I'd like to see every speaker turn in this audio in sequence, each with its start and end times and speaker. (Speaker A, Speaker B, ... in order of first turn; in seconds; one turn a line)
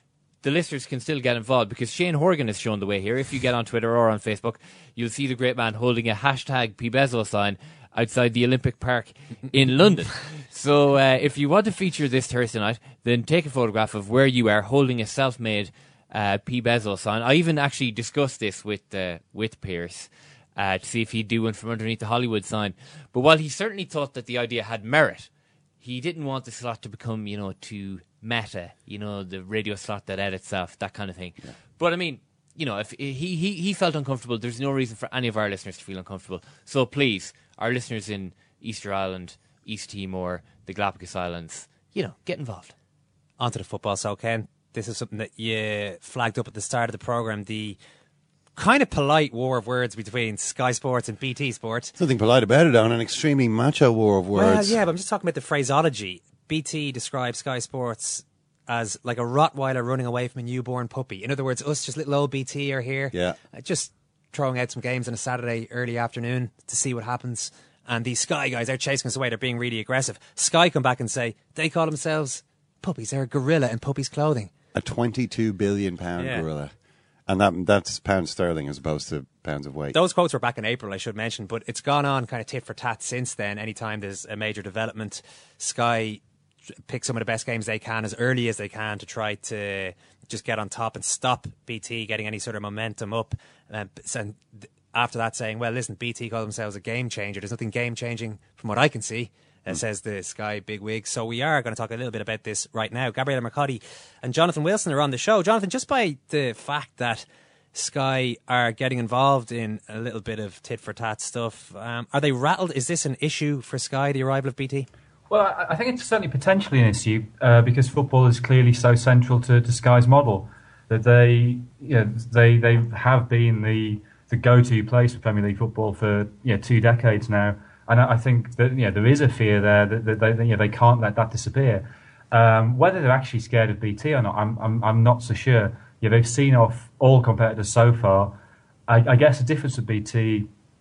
Speaker A: 0.4-42.7
Speaker B: 43.4-47.8
Speaker B: 48.5-51.9
Speaker C: 52.0-54.8
Speaker B: 54.3-74.5
Speaker C: 63.1-63.4
Speaker C: 74.7-76.7
Speaker C: 77.3-80.0
Speaker B: 79.9-86.2
Speaker B: 86.8-114.9
Speaker D: 115.3-138.4
Speaker D: 138.9-140.5